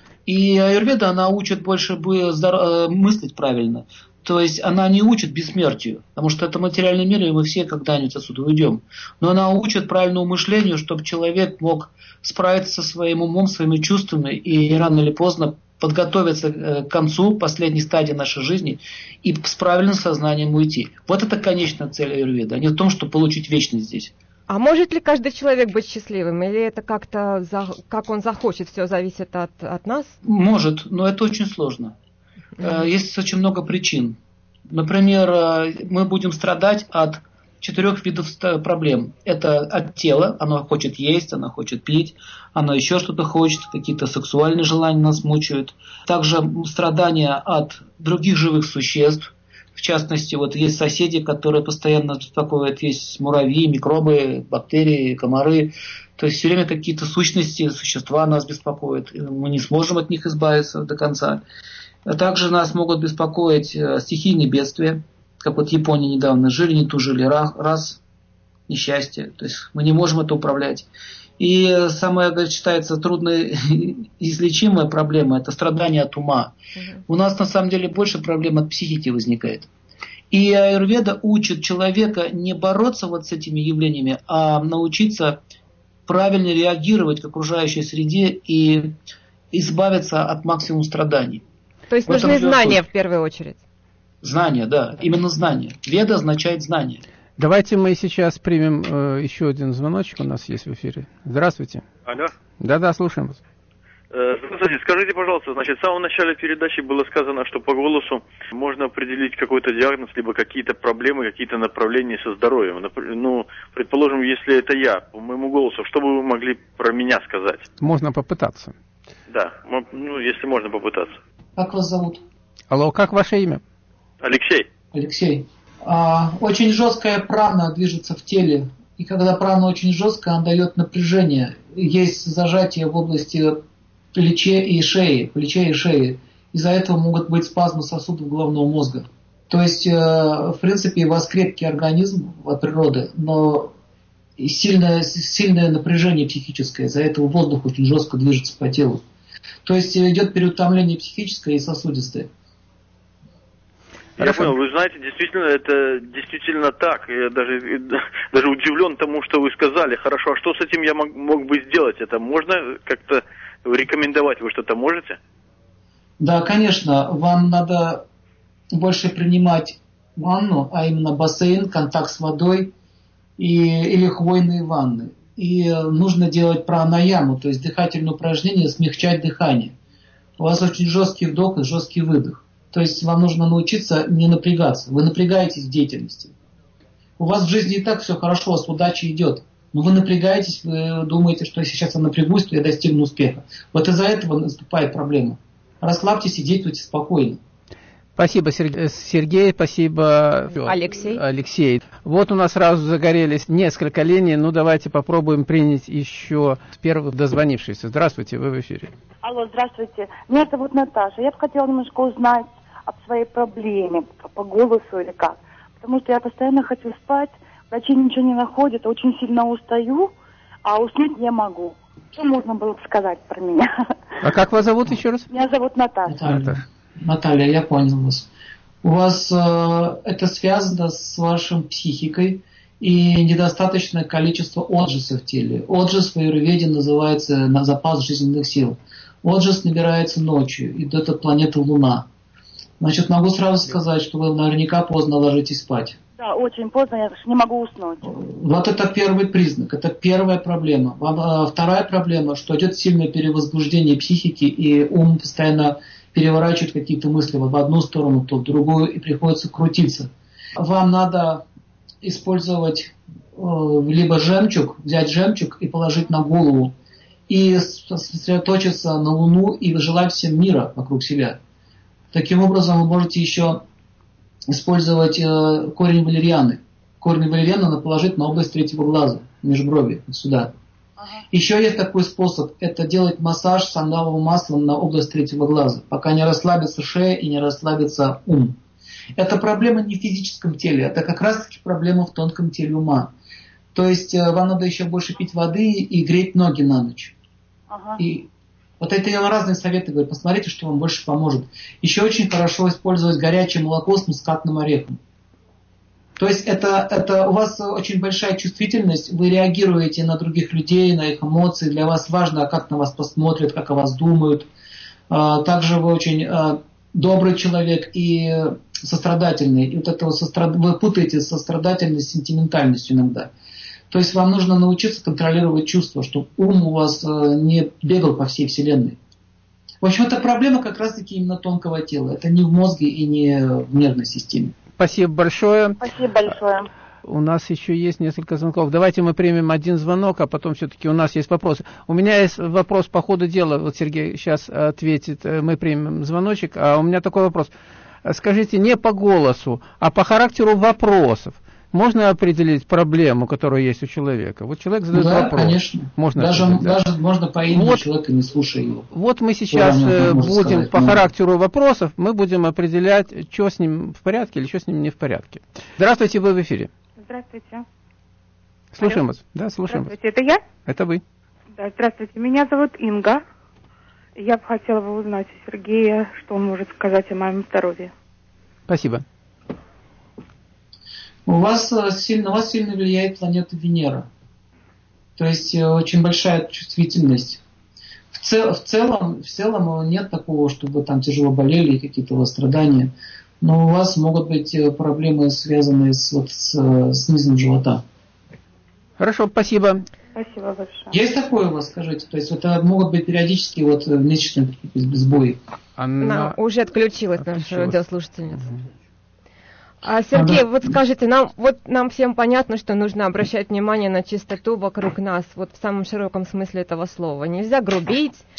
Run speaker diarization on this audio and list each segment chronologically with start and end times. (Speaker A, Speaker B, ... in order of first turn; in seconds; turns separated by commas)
Speaker A: 0.2-24.1, Speaker B: 24.5-30.1, Speaker A: 30.2-31.9, Speaker A: 32.6-34.2, Speaker A: 34.7-61.4, Speaker A: 62.0-68.0, Speaker A: 68.7-70.9, Speaker A: 71.4-76.5, Speaker A: 77.1-79.7, Speaker A: 80.3-85.4, Speaker A: 86.1-88.9, Speaker A: 89.5-91.4, Speaker B: 91.9-93.6, Speaker A: 92.0-92.8, Speaker A: 94.2-97.0, Speaker C: 97.4-101.8, Speaker D: 102.0-102.3, Speaker C: 102.6-103.4, Speaker D: 104.1-117.7, Speaker C: 117.8-118.7, Speaker D: 119.3-121.2, Speaker A: 121.5-122.2, Speaker C: 122.7-123.6, Speaker D: 124.2-124.7, Speaker A: 124.9-133.6, Speaker A: 134.1-143.7, Speaker A: 144.4-149.0, Speaker A: 149.6-152.3, Speaker C: 154.2-154.5, Speaker D: 154.2-165.2, Speaker A: 166.2-168.0, Speaker A: 168.7-172.7, Speaker A: 173.4-179.7, Speaker A: 180.4-186.3, Speaker A: 187.2-197.4, Speaker C: 198.2-208.9, Speaker B: 200.6-201.2, Speaker E: 209.2-220.1, Speaker E: 220.6-223.7, Speaker C: 224.2-225.3, Speaker E: 225.3-226.2, Speaker A: 226.1-228.3, Speaker C: 226.2-226.6, Speaker A: 228.8-242.1, Speaker A: 242.8-246.0, Speaker E: 246.2-248.1, Speaker A: 248.0-261.4, Speaker A: 262.0-266.7, Speaker A: 267.3-271.4, Speaker A: 272.1-273.6, Speaker A: 274.5-280.6, Speaker A: 281.3-288.6, Speaker A: 289.1-293.1, Speaker A: 293.7-297.1, Speaker E: 297.7-298.0, Speaker A: 298.0-298.3, Speaker A: 298.8-305.0, Speaker A: 306.2-314.5, Speaker A: 315.1-323.3, Speaker A: 323.9-329.0, Speaker A: 329.8-334.5, Speaker C: 334.8-335.8, Speaker E: 335.8-336.7, Speaker C: 337.0-347.5, Speaker C: 348.0-356.8, Speaker A: 354.9-358.9, Speaker C: 357.5-357.8, Speaker C: 358.9-366.7, Speaker A: 359.5-361.1, Speaker F: 367.0-367.6, Speaker C: 368.7-369.9, Speaker F: 369.6-370.4, Speaker C: 370.6-371.0, Speaker F: 371.6-373.2, Speaker F: 374.2-377.9, Speaker C: 378.7-379.0, Speaker A: 381.2-384.1, Speaker A: 385.2-387.4, Speaker A: 388.1-397.8, Speaker C: 399.0-399.8, Speaker F: 400.1-400.9, Speaker A: 400.9-405.4, Speaker C: 405.8-406.4, Speaker B: 406.0-408.5, Speaker C: 407.2-407.8, Speaker B: 409.8-418.2, Speaker A: 410.1-410.5